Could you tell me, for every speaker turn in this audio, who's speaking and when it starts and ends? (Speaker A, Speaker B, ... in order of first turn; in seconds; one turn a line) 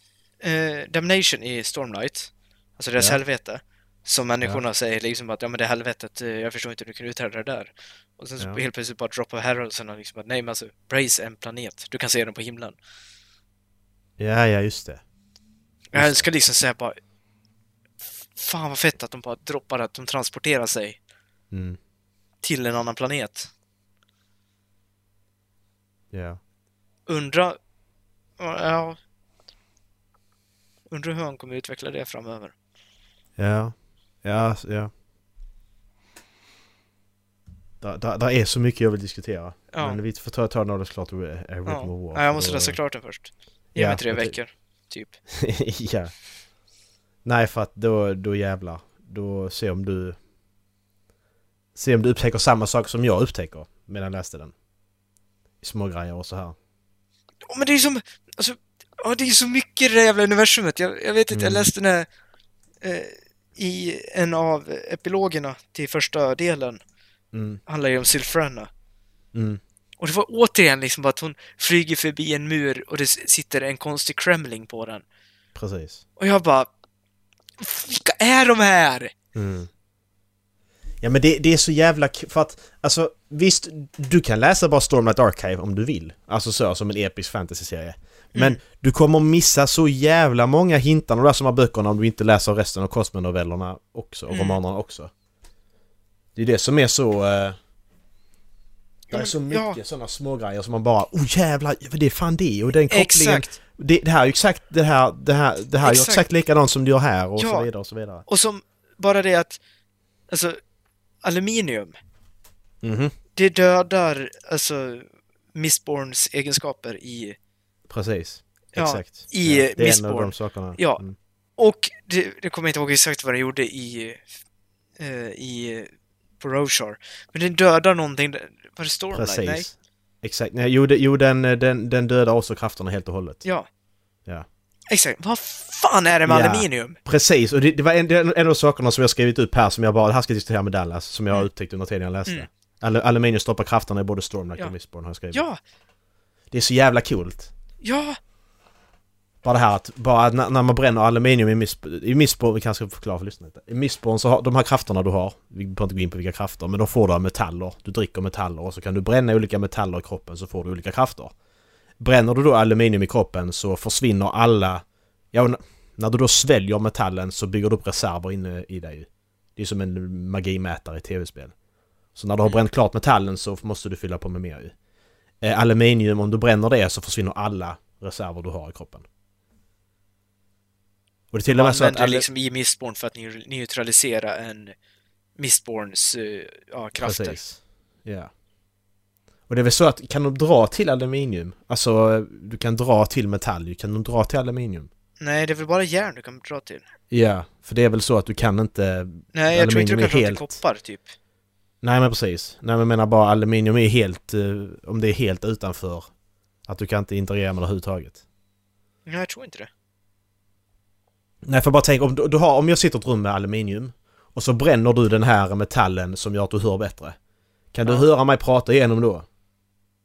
Speaker A: 0.4-12.8
Speaker B: 14.2-15.0
Speaker A: 15.9-17.0
Speaker B: 15.9-16.3
Speaker A: 18.3-21.0
Speaker B: 21.5-21.8
Speaker A: 22.4-23.5
Speaker B: 26.1-26.4
Speaker A: 27.1-27.6
Speaker A: 28.4-29.0
Speaker A: 30.9-32.5
Speaker B: 33.4-34.9
Speaker B: 37.8-42.8
Speaker A: 39.7-40.0
Speaker A: 41.6-45.2
Speaker B: 43.8-44.4
Speaker B: 45.3-46.1
Speaker B: 47.2-50.2
Speaker B: 51.7-54.5
Speaker B: 55.6-56.5
Speaker A: 57.5-62.1
Speaker B: 61.3-61.7
Speaker A: 62.8-66.8
Speaker B: 67.3-67.6
Speaker A: 67.7-68.7
Speaker B: 69.3-69.6
Speaker A: 70.0-75.0
Speaker B: 75.5-76.0
Speaker A: 76.2-76.7
Speaker A: 77.6-79.1
Speaker B: 79.3-79.7
Speaker B: 81.0-95.1
Speaker A: 88.3-88.6
Speaker A: 94.3-94.6
Speaker B: 96.3-97.6
Speaker A: 99.1-99.8
Speaker B: 99.1-108.2
Speaker A: 102.9-103.5
Speaker A: 105.8-106.2
Speaker A: 107.4-107.7
Speaker A: 108.3-109.6
Speaker A: 110.3-110.6
Speaker A: 111.2-112.0
Speaker B: 112.8-113.1
Speaker A: 113.3-117.4
Speaker B: 117.9-121.2
Speaker A: 118.7-121.0
Speaker A: 121.6-124.3
Speaker A: 125.0-129.7
Speaker B: 129.1-133.4
Speaker A: 134.9-137.0
Speaker B: 136.3-145.4
Speaker A: 145.3-145.6
Speaker B: 146.5-147.5
Speaker A: 147.8-148.2
Speaker B: 149.4-161.3
Speaker B: 162.0-171.5
Speaker B: 172.1-174.7
Speaker B: 175.4-179.1
Speaker B: 181.3-182.2
Speaker A: 181.5-184.7
Speaker A: 185.4-187.4
Speaker B: 187.0-188.3
Speaker B: 189.5-194.9
Speaker A: 195.2-196.8
Speaker B: 197.1-200.6
Speaker A: 199.3-201.1
Speaker B: 201.8-206.1
Speaker B: 206.7-208.2
Speaker A: 209.1-209.7
Speaker B: 211.4-217.2
Speaker B: 217.7-219.2